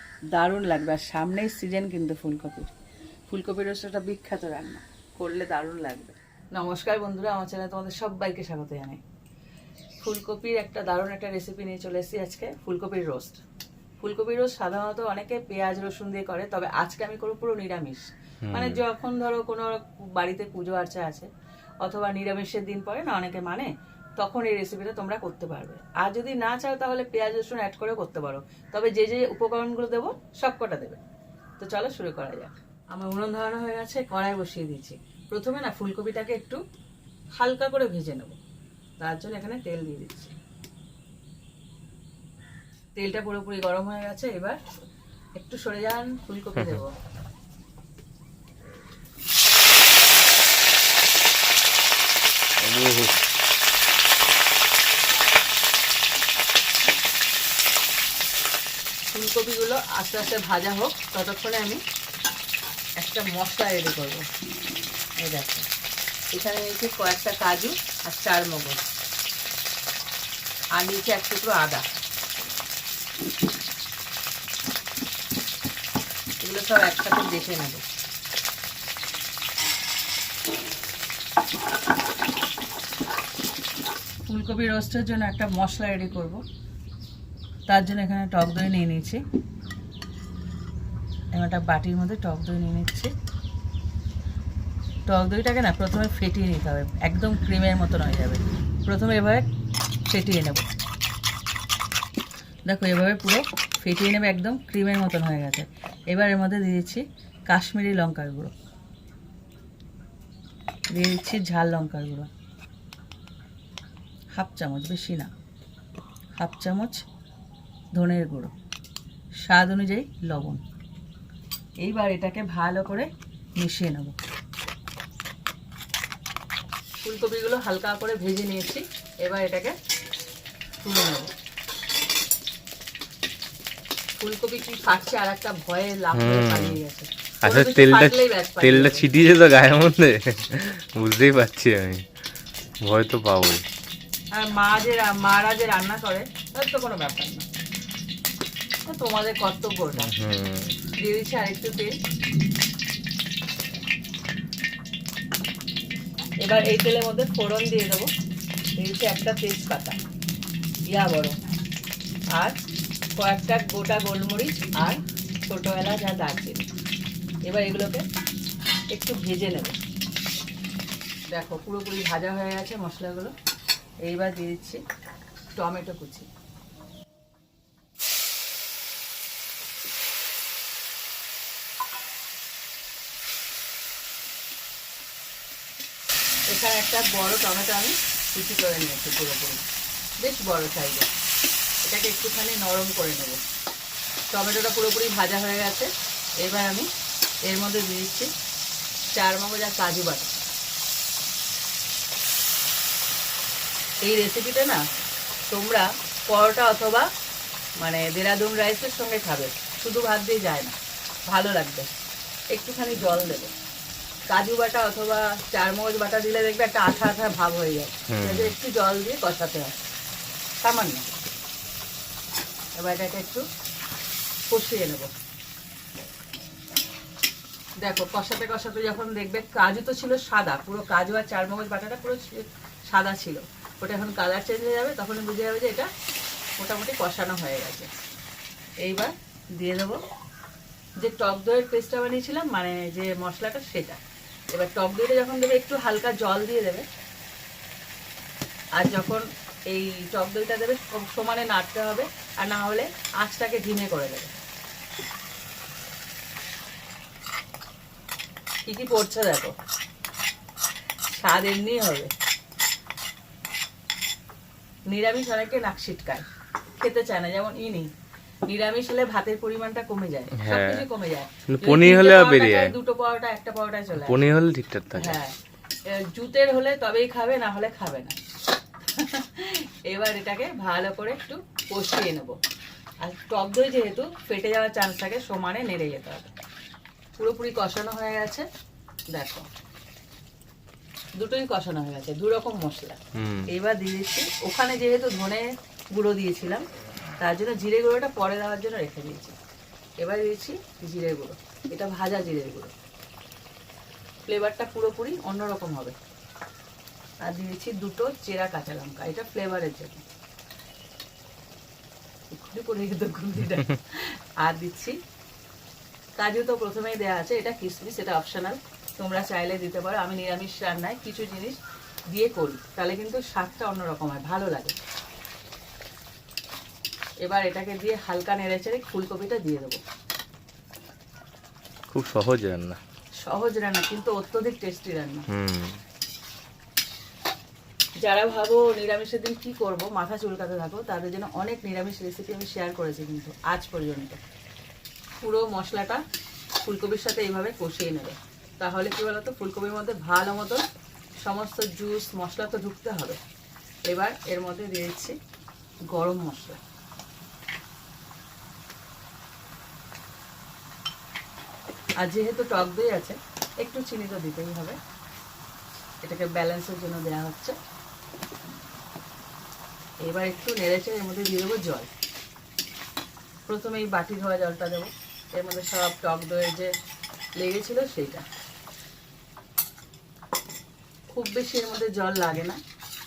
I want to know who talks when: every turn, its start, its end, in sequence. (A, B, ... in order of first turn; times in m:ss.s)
0:00.3-0:02.7 A
0:03.3-0:09.0 A
0:10.0-0:13.4 A
0:14.0-0:21.3 A
0:18.4-0:18.8 B
0:21.8-0:31.0 A
0:31.6-0:36.6 A
0:37.4-0:38.4 A
0:39.0-0:40.4 A
0:43.0-0:44.6 A
0:45.4-0:46.9 A
0:46.6-0:46.8 B
0:52.6-0:53.2 B
0:59.1-1:01.8 A
1:03.0-1:04.3 A
1:05.2-1:05.7 A
1:06.3-1:08.9 A
1:10.8-1:11.9 A
1:16.4-1:17.8 A
1:24.3-1:26.4 A
1:27.7-1:29.2 A
1:31.3-1:33.1 A
1:35.1-1:39.5 A
1:40.1-1:40.7 A
1:42.7-1:48.5 A
1:50.9-1:52.3 A
1:54.4-1:55.3 A
1:56.4-1:57.0 A
1:58.0-1:58.5 A
1:59.4-2:00.6 A
2:01.8-2:04.2 A
2:07.0-2:09.8 A
2:10.8-2:11.3 A
2:14.2-2:19.2 A
2:16.1-2:16.8 B
2:17.4-2:22.1 B
2:22.8-2:23.6 B
2:24.3-2:27.5 A
2:28.9-2:30.1 A
2:30.0-2:30.8 B
2:31.0-2:32.0 A
2:36.4-2:38.1 A
2:38.8-2:40.0 A
2:40.9-2:41.5 A
2:43.2-2:46.7 A
2:47.5-2:48.0 A
2:48.9-2:49.8 A
2:51.3-2:53.3 A
2:54.0-2:54.8 A
2:55.6-2:56.3 A
3:06.5-3:09.6 A
3:10.2-3:11.1 A
3:11.8-3:13.4 A
3:14.3-3:15.9 A
3:16.4-3:16.9 A
3:17.5-3:18.3 A
3:19.1-3:20.5 A
3:24.0-3:24.8 A
3:25.5-3:27.1 A
3:27.8-3:30.8 A
3:31.3-3:31.9 A
3:32.5-3:33.5 A
3:34.3-3:39.8 A
3:38.1-3:38.5 B
3:40.6-3:41.1 A
3:42.8-3:43.4 A
3:44.5-3:45.1 A
3:47.8-3:55.9 A
3:56.6-3:57.9 A
3:58.8-4:00.0 A
4:01.0-4:04.0 A
4:04.5-4:06.9 A
4:08.8-4:14.3 A
4:18.7-4:19.5 A
4:21.1-4:22.1 A
4:24.9-4:26.3 A
4:26.8-4:27.9 A
4:28.5-4:34.2 A
4:30.3-4:30.9 B
4:31.5-4:32.8 B
4:34.0-4:35.2 B
4:34.9-4:35.4 A
4:35.9-4:38.2 A
4:38.9-4:42.4 A
4:43.0-4:46.3 A
4:47.2-4:48.5 A
4:49.1-4:49.5 A
4:51.2-4:56.6 A
4:53.2-4:53.5 B
4:57.2-4:59.4 A
5:00.0-5:02.7 A
5:04.3-5:06.0 A
5:07.2-5:10.0 A
5:12.3-5:15.0 A
5:16.2-5:21.6 A
5:22.1-5:24.8 A
5:27.2-5:29.8 A
5:31.9-5:32.8 B
5:33.2-5:35.3 A
5:35.3-5:35.8 B
5:38.0-5:44.2 A
5:45.2-5:46.0 A
5:46.6-5:50.6 A
5:51.2-5:53.2 A
5:53.9-5:55.2 A
5:55.9-5:56.6 A
6:02.0-6:04.8 A
6:06.0-6:07.6 A
6:10.0-6:11.9 A
6:13.5-6:16.7 A
6:17.4-6:18.2 A
6:21.1-6:22.6 A